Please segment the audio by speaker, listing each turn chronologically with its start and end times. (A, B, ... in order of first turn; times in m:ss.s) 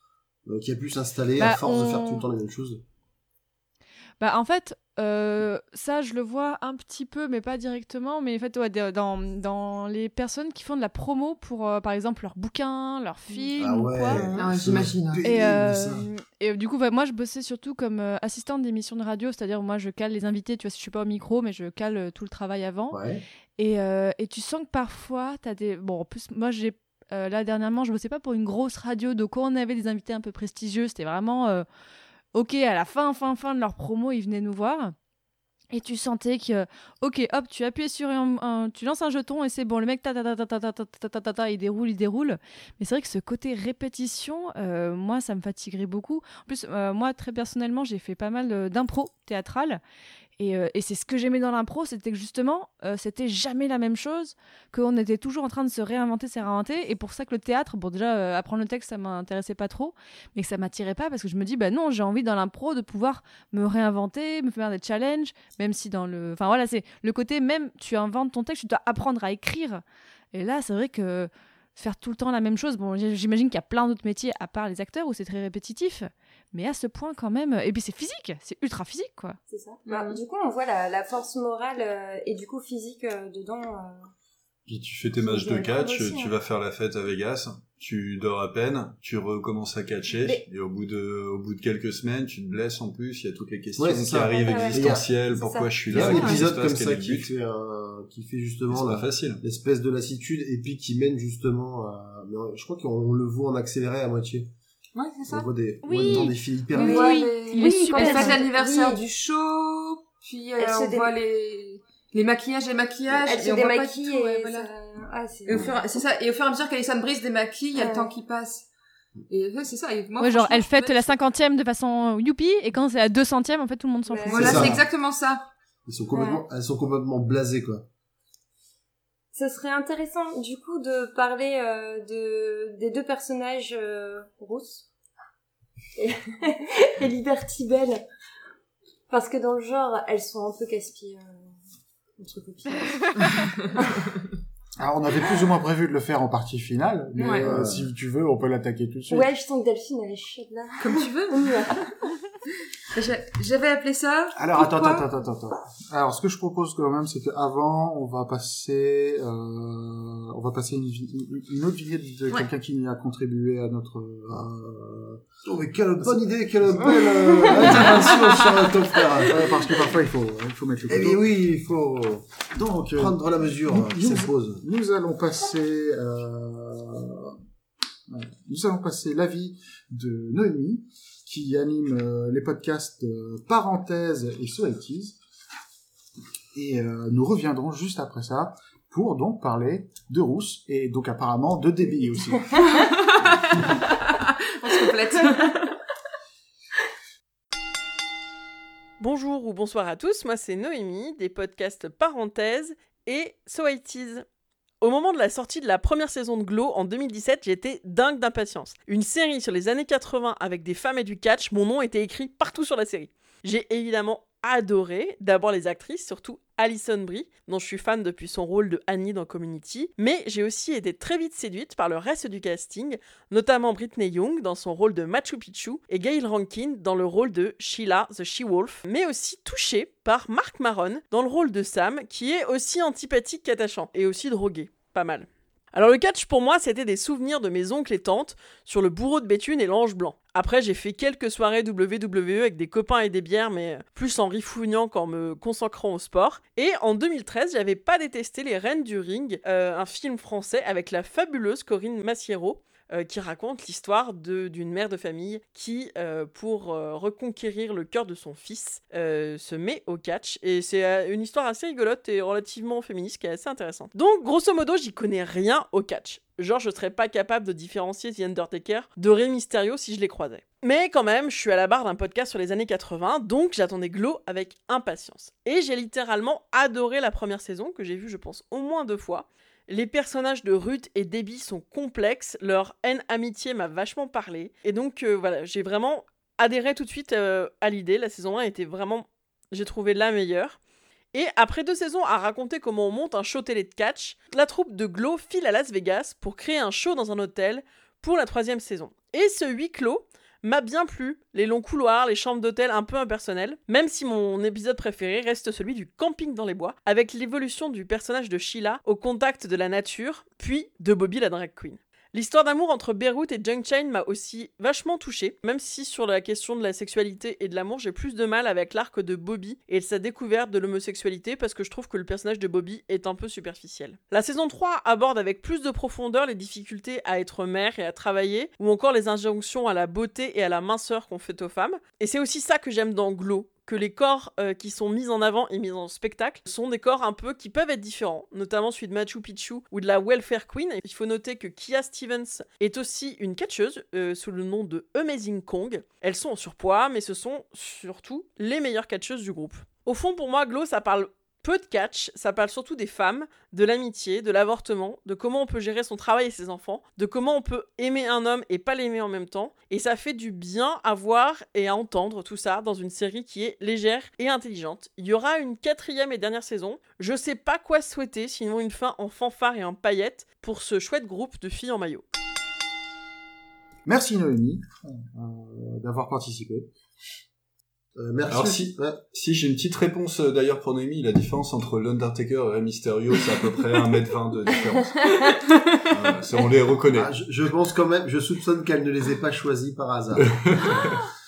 0:00.5-0:02.8 A
0:01.4-0:02.2 B
0:04.2-0:14.2 B
0:13.6-0:16.0 A
0:14.3-0:15.2 C
0:15.2-0:23.0 B
0:22.9-0:23.2 A
0:23.6-0:31.6 B
0:32.3-0:34.9 B
0:35.7-0:49.8 B
0:50.4-1:09.8 B
1:10.3-1:19.4 B
1:19.5-1:24.1 D
1:19.8-1:20.2 C
1:24.7-1:37.3 E
1:25.2-1:26.3 D
1:33.8-1:44.5 A
1:34.2-1:36.3 D
1:36.0-1:36.3 C
1:38.7-1:39.4 E
1:45.0-1:45.5 C
1:45.3-1:47.1 A
1:45.8-1:48.4 B
1:46.8-1:54.7 C
1:46.8-1:49.0 D
1:50.6-1:51.1 D
1:53.1-1:55.7 D
1:55.4-1:58.7 C
1:57.7-1:58.1 D
1:59.3-2:01.1 C
2:00.2-2:04.6 B
2:04.1-2:04.8 D
2:04.3-2:04.8 A
2:04.3-2:05.4 C
2:05.9-2:07.8 A
2:06.1-2:06.4 D
2:09.3-2:14.9 D
2:16.0-2:18.0 D
2:19.1-2:21.5 D
2:22.2-2:23.2 D
2:24.8-2:29.3 F
2:27.1-2:27.5 C
2:27.4-2:27.9 A
2:29.1-2:31.8 D
2:30.8-2:31.7 C
2:32.9-2:35.0 C
2:34.4-2:45.2 F
2:45.4-2:49.4 A
2:47.4-2:47.9 F
2:47.7-2:48.4 C
2:49.2-2:51.2 F
2:50.9-2:52.3 A
2:52.5-2:53.2 F
2:53.0-2:54.6 A
2:53.7-2:57.3 F
2:58.1-3:05.2 F
3:06.5-3:12.5 F
3:13.5-3:15.6 C
3:19.0-3:24.2 G
3:24.8-4:50.6 G
4:51.1-6:12.0 G
6:13.8-6:16.7 F
6:18.0-6:19.0 A
6:18.3-6:24.9 E
6:25.9-6:27.1 E
6:26.9-6:30.6 A
6:30.2-6:30.8 E